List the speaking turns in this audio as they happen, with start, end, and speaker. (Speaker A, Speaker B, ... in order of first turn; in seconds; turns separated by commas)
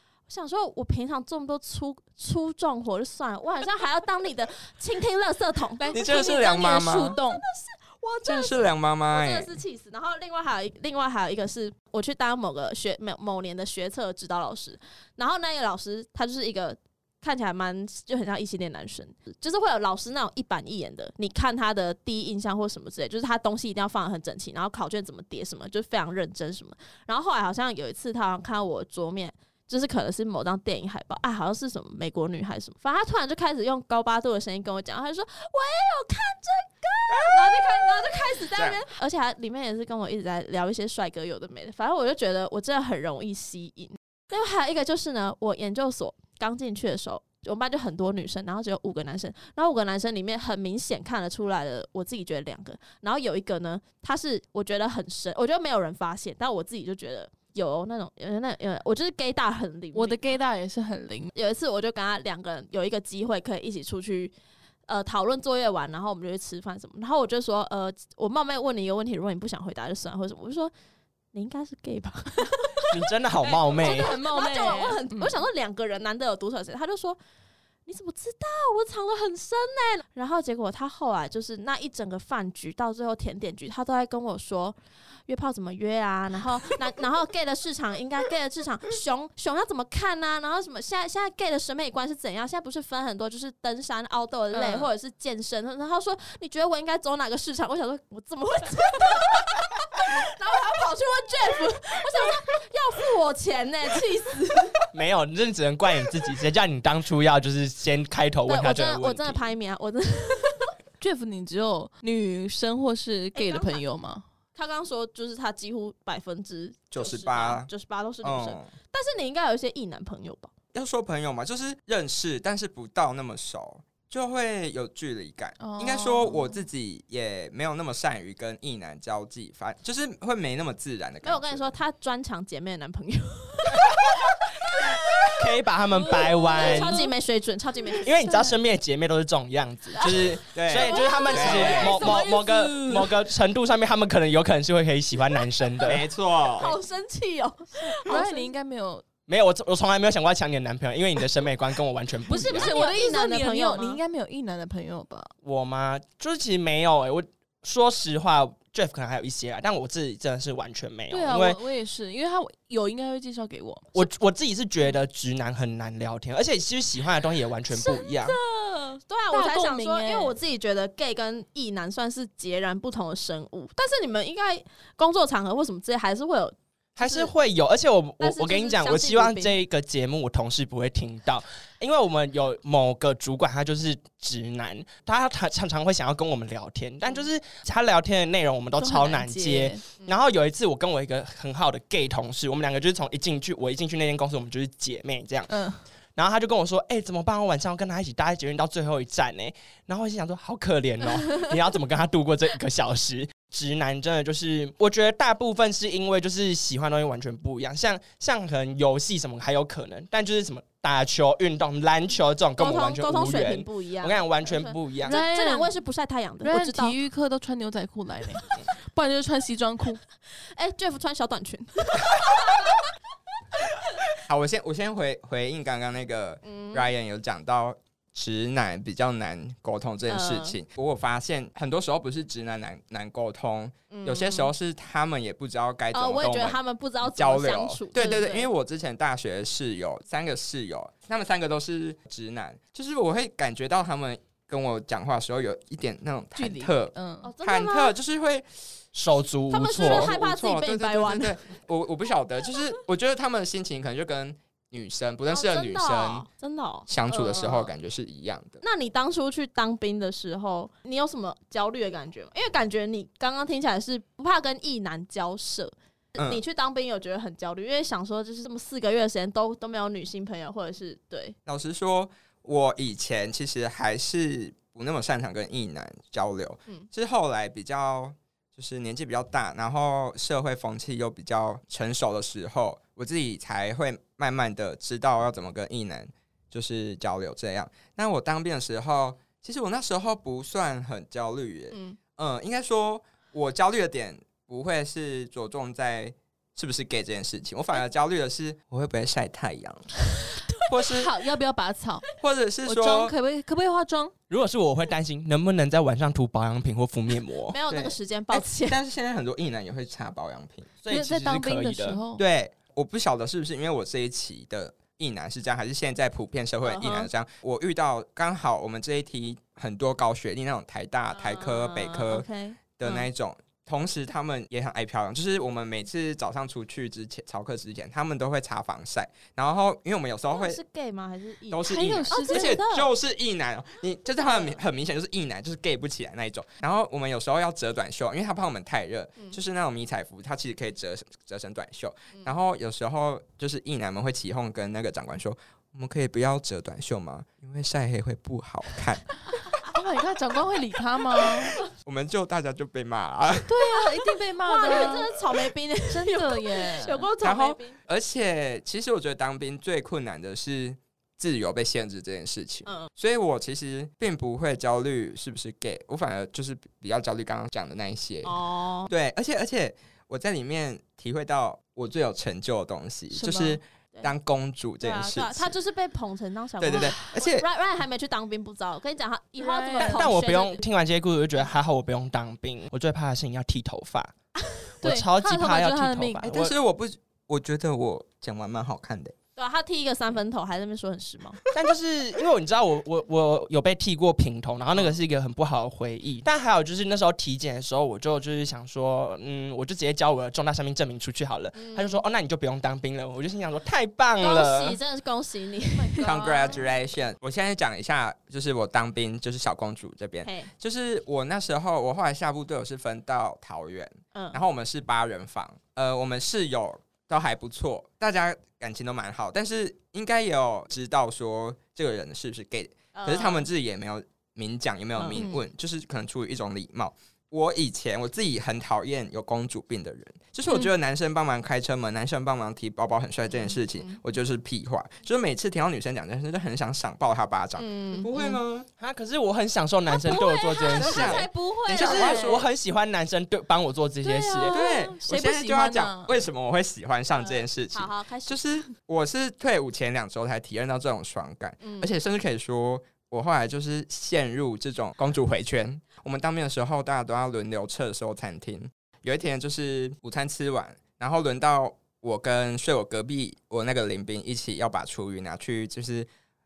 Speaker A: 0.3-60.3, Speaker B: 5.8-7.4, Speaker C: 5.9-7.2, Speaker C: 8.2-9.6, Speaker C: 37.1-38.8, Speaker B: 59.9-61.3, Speaker A: 61.4-64.3, Speaker A: 64.9-70.7, Speaker A: 71.3-77.2, Speaker D: 72.9-74.2, Speaker B: 73.7-75.4, Speaker A: 77.9-84.8, Speaker A: 85.3-104.8, Speaker B: 94.5-94.9, Speaker D: 104.9-109.4, Speaker A: 108.5-110.7, Speaker B: 111.0-114.2, Speaker A: 113.3-113.8, Speaker A: 114.5-120.5, Speaker C: 116.9-117.7, Speaker C: 118.2-118.7, Speaker C: 120.7-131.7, Speaker B: 125.6-126.6, Speaker A: 131.2-135.4, Speaker D: 135.4-137.1, Speaker A: 136.1-138.6, Speaker B: 136.2-137.1, Speaker D: 138.0-146.1, Speaker A: 140.0-142.2, Speaker C: 140.5-142.2, Speaker B: 140.8-143.2, Speaker C: 145.8-146.8, Speaker A: 146.6-148.5, Speaker B: 148.0-149.1, Speaker D: 149.3-152.7, Speaker B: 152.3-155.3, Speaker A: 152.4-154.0, Speaker D: 155.4-161.6, Speaker B: 161.1-164.1, Speaker D: 163.9-168.4, Speaker A: 167.7-168.2, Speaker B: 168.4-170.3, Speaker A: 169.1-177.3, Speaker D: 177.0-195.6, Speaker A: 178.2-179.6, Speaker B: 188.8-189.8, Speaker B: 195.5-195.8, Speaker D: 196.2-215.2, Speaker A: 212.6-216.9, Speaker B: 215.0-215.8, Speaker B: 216.4-220.0, Speaker A: 220.5-222.8, Speaker C: 224.2-248.5, Speaker A: 226.4-226.8, Speaker A: 230.1-230.6, Speaker A: 233.9-234.5, Speaker A: 235.9-238.5, Speaker B: 246.3-247.3, Speaker A: 247.2-248.0, Speaker D: 248.9-250.1, Speaker A: 249.5-251.4, Speaker C: 249.8-256.3, Speaker A: 255.3-257.7, Speaker C: 256.9-258.6, Speaker A: 258.6-271.4, Speaker C: 266.2-266.4, Speaker C: 271.5-299.9, Speaker A: 291.7-292.0, Speaker C: 300.6-301.1, Speaker B: 300.9-302.1, Speaker C: 302.2-303.1, Speaker B: 302.6-304.1, Speaker D: 304.3-307.6, Speaker A: 307.5-308.8, Speaker C: 307.7-310.7, Speaker D: 310.8-312.0, Speaker B: 310.9-312.2, Speaker C: 312.2-322.3, Speaker A: 316.6-317.1, Speaker A: 321.1-323.1, Speaker C: 322.8-330.6, Speaker A: 330.3-332.9, Speaker C: 331.5-349.1, Speaker B: 331.7-332.6, Speaker A: 334.2-334.6, Speaker B: 349.7-351.6, Speaker C: 351.2-353.5, Speaker B: 353.5-355.1, Speaker A: 354.5-357.8, Speaker B: 355.9-357.1, Speaker C: 357.2-375.5, Speaker A: 368.2-368.9, Speaker B: 373.1-373.6, Speaker A: 374.8-380.6, Speaker C: 376.6-377.5, Speaker B: 376.7-377.0, Speaker B: 379.4-380.1, Speaker D: 379.8-384.1, Speaker B: 384.8-386.3, Speaker D: 384.8-386.5, Speaker C: 386.2-389.1, Speaker A: 389.4-391.4, Speaker D: 391.5-404.8, Speaker A: 401.6-402.0, Speaker A: 404.2-406.6, Speaker B: 405.7-406.7, Speaker C: 406.0-438.7, Speaker A: 410.2-410.5, Speaker A: 414.1-414.4, Speaker A: 422.9-423.5, Speaker A: 425.0-425.3, Speaker B: 425.1-425.4, Speaker A: 433.3-434.0, Speaker A: 437.6-438.1, Speaker D: 438.8-444.6, Speaker A: 439.9-442.4, Speaker B: 440.1-442.4, Speaker C: 440.8-442.4, Speaker B: 444.0-446.2, Speaker C: 444.5-466.1, Speaker A: 447.1-448.5, Speaker A: 451.6-451.9